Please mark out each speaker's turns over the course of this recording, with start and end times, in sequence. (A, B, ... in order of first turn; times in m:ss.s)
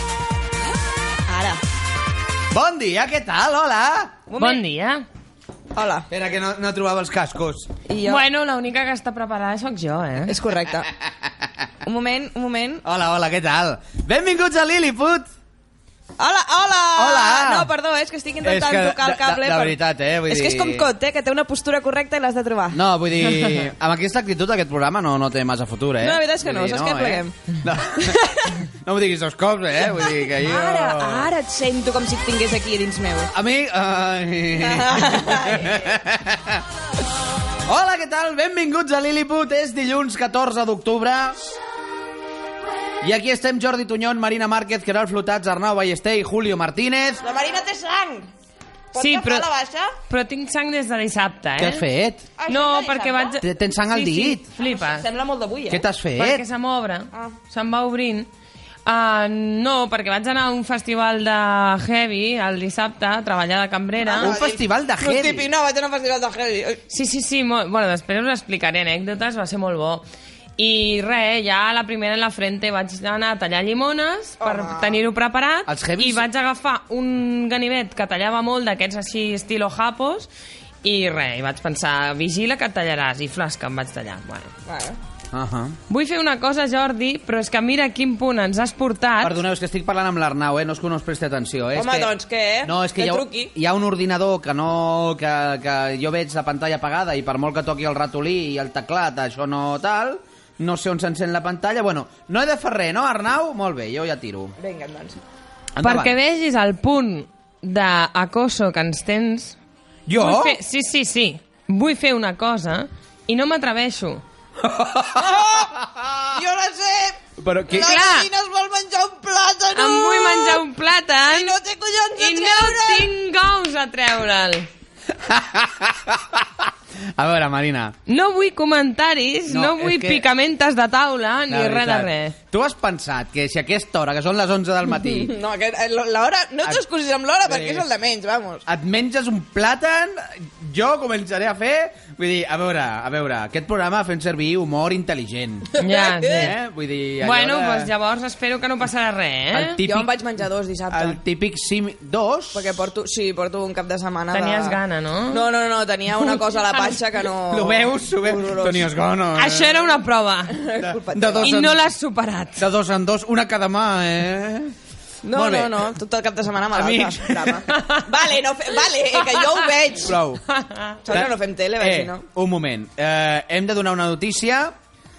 0:01.3-0:01.6 A
0:02.5-0:04.2 B
0:04.3-0:04.6 A
0:04.4-0:05.0 C
0:05.7-0:06.1 A
0:06.1-0:07.7 B
0:07.9-0:08.2 A
0:08.0-0:10.3 C
0:10.3-0:10.9 A
0:11.8-0:12.8 A
0:12.8-0:15.3 B
0:16.2-0:19.8 A
0:17.0-0:17.7 B
0:18.4-0:20.9 B
0:20.3-0:22.8 A
0:22.7-0:31.3 B
0:26.0-0:28.4 A
0:29.9-0:33.3 A
0:33.3-0:36.6 B
0:34.6-0:35.9 A
0:37.6-0:41.6 B
0:43.0-0:47.2 B
0:47.2-0:48.3 A
0:48.9-0:49.9 A
0:49.0-0:49.4 C
0:50.1-0:51.8 C
0:51.6-0:52.3 B
0:52.4-0:53.4 A
0:52.5-0:55.0 C
0:53.4-0:54.4 B
0:54.6-0:55.8 A
0:55.7-0:56.4 B
0:56.2-0:58.3 C
0:58.8-1:04.3 C
1:04.0-1:06.8 A
1:04.2-1:05.5 B
1:06.9-1:10.0 C
1:10.6-1:20.3 C
1:14.4-1:15.0 A
1:15.7-1:16.3 B
1:20.8-1:24.5 C
1:24.6-1:25.0 A
1:25.3-1:25.8 B
1:25.9-1:29.4 C
1:29.2-1:44.5 B
1:31.7-1:33.5 A
1:44.6-1:45.2 A
1:45.7-1:46.1 B
1:45.8-1:49.6 C
1:50.1-1:50.6 B
1:50.2-1:54.2 C
1:54.6-1:56.2 B
1:55.2-1:55.7 A
1:56.3-2:00.6 A
1:57.4-1:58.0 B
1:57.8-1:58.3 C
1:59.7-2:01.5 C
2:01.2-2:03.1 A
2:02.2-2:04.7 C
2:05.1-2:08.0 B
2:08.1-2:12.4 C
2:09.5-2:10.3 B
2:11.5-2:15.3 B
2:14.9-2:18.6 A
2:17.4-2:17.9 B
2:18.7-2:25.7 B
2:25.8-2:26.5 A
2:25.8-2:26.5 C
2:26.3-2:27.9 B
2:27.2-2:29.8 C
2:29.5-2:30.1 B
2:29.8-2:31.2 A
2:30.9-2:32.8 B
2:32.5-2:34.8 A
2:34.3-2:35.4 C
2:35.3-2:38.9 A
2:37.5-2:39.9 B
2:39.3-2:40.6 C
2:40.5-2:41.7 A
2:40.8-2:41.8 B
2:41.4-2:42.6 C
2:42.6-2:44.7 B
2:45.2-2:50.2 A
2:45.3-2:45.9 B
2:46.7-2:47.6 B
2:47.7-2:48.0 C
2:50.0-2:50.4 B
2:50.5-2:51.0 C
2:51.0-2:52.2 A
2:51.1-2:54.7 B